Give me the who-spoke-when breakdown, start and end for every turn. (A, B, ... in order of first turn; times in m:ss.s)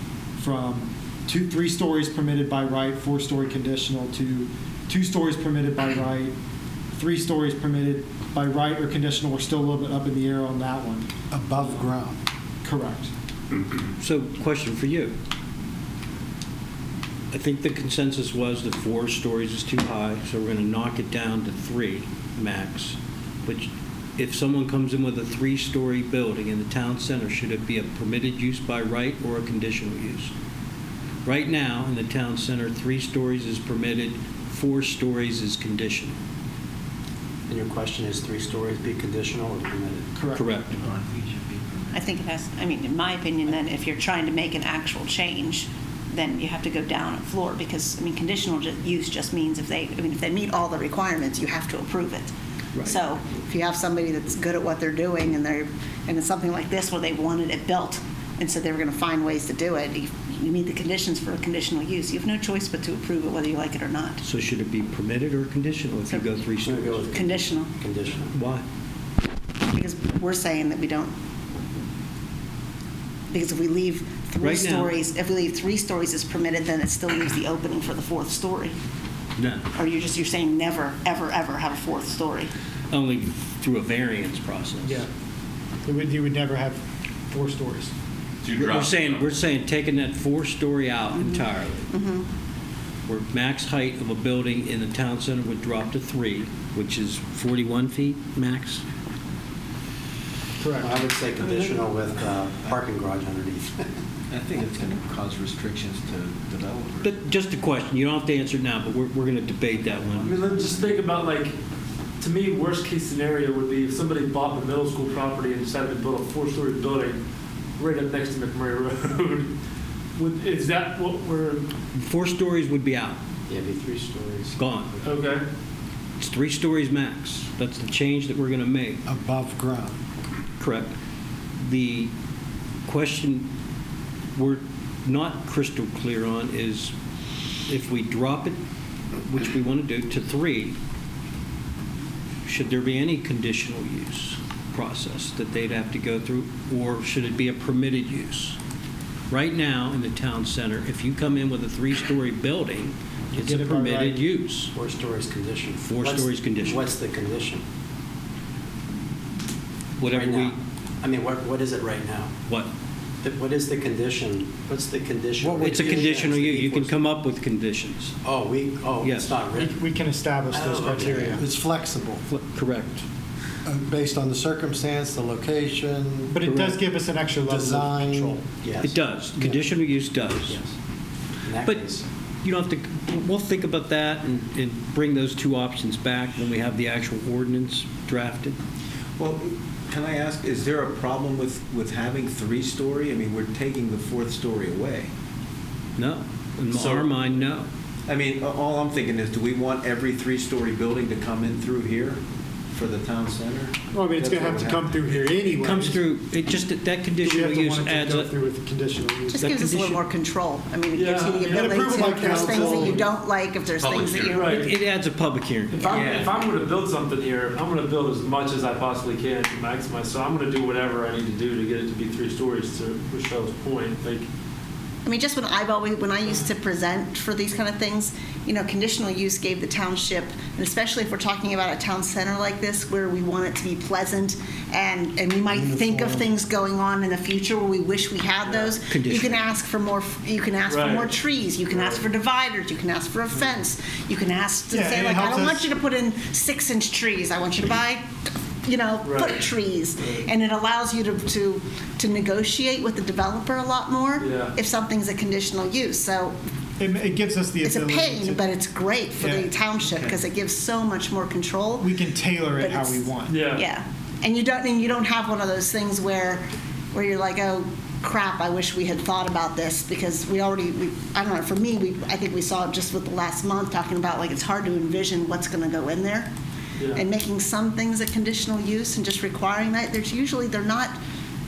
0:00.4-0:06.3 A
0:06.9-0:11.1 A
0:11.3-0:12.2 B
0:12.6-0:13.1 A
0:14.0-0:15.1 C
0:17.3-0:30.3 C
0:31.2-0:36.2 C
0:37.5-0:40.1 D
0:40.2-0:40.4 A
0:40.3-0:40.8 C
0:40.8-0:42.0 E
0:41.9-1:04.2 F
1:04.2-1:07.1 C
1:06.6-1:08.3 D
1:07.1-1:07.7 F
1:08.3-1:08.6 C
1:09.7-1:11.1 F
1:13.3-1:18.7 F
1:14.4-1:15.0 C
1:19.4-1:19.7 C
1:19.7-1:22.5 F
1:22.9-1:25.0 C
1:24.8-1:25.1 A
1:25.8-1:27.9 A
1:28.5-1:29.3 B
1:28.5-1:31.9 C
1:31.1-1:32.3 F
1:33.1-1:38.8 C
1:40.6-1:41.0 A
1:40.8-1:43.8 D
1:44.3-1:47.1 E
1:47.0-1:50.4 C
1:50.0-1:50.9 E
1:50.2-1:51.5 G
1:52.2-1:57.2 G
1:57.8-1:59.5 G
2:00.2-2:01.6 G
2:01.9-2:03.2 C
2:03.5-2:04.6 D
2:04.5-2:04.9 C
2:05.0-2:05.4 G
2:06.2-2:09.0 C
2:09.1-2:09.9 A
2:10.6-2:10.9 C
2:11.6-2:12.1 C
2:12.8-2:13.5 C
2:14.4-2:16.9 C
2:17.7-2:18.6 C
2:19.3-2:20.8 C
2:22.4-2:28.6 C
2:29.3-2:34.7 C
2:33.3-2:34.2 A
2:34.7-2:37.6 D
2:35.8-2:36.9 C
2:40.0-2:40.6 C
2:40.1-2:42.3 D
2:43.2-2:47.0 D
2:45.4-2:46.1 B
2:45.6-2:48.1 C
2:48.2-2:49.8 D
2:49.0-2:49.3 C
2:49.5-2:51.4 A
2:50.5-2:51.4 D
2:51.3-2:52.2 B
2:52.3-2:53.0 C
2:53.7-2:56.2 B
2:56.3-2:58.4 A
2:56.4-2:56.8 C
2:57.4-2:58.4 B
2:58.5-2:59.0 D
2:58.8-3:00.6 C
3:00.5-3:00.7 D
3:01.4-3:02.0 D
3:02.4-3:08.6 C
3:09.2-3:15.1 E
3:16.0-3:17.7 C
3:16.7-3:17.1 E
3:18.1-3:25.5 E
3:23.9-3:26.0 A
3:25.6-3:28.3 C
3:27.2-3:29.6 A
3:29.3-3:34.7 F
3:29.4-3:30.0 C
3:30.9-3:33.1 G
3:31.5-3:33.0 A
3:33.8-3:34.4 B
3:34.1-3:34.7 G
3:34.4-3:36.0 C
3:35.7-3:44.3 G
3:35.8-3:36.4 F
3:35.9-3:36.3 E
3:45.0-4:08.0 F
3:58.4-3:58.7 G
3:58.9-3:59.4 C
4:00.7-4:01.2 G
4:01.7-4:02.0 G
4:04.7-4:05.6 A
4:08.6-4:16.4 F
4:09.0-4:09.4 G
4:14.2-4:14.5 G
4:16.8-4:18.4 A
4:17.6-4:21.9 F
4:19.2-4:20.1 A
4:21.8-4:23.3 A
4:22.6-4:36.3 F
4:23.3-4:23.6 G
4:36.9-4:41.0 F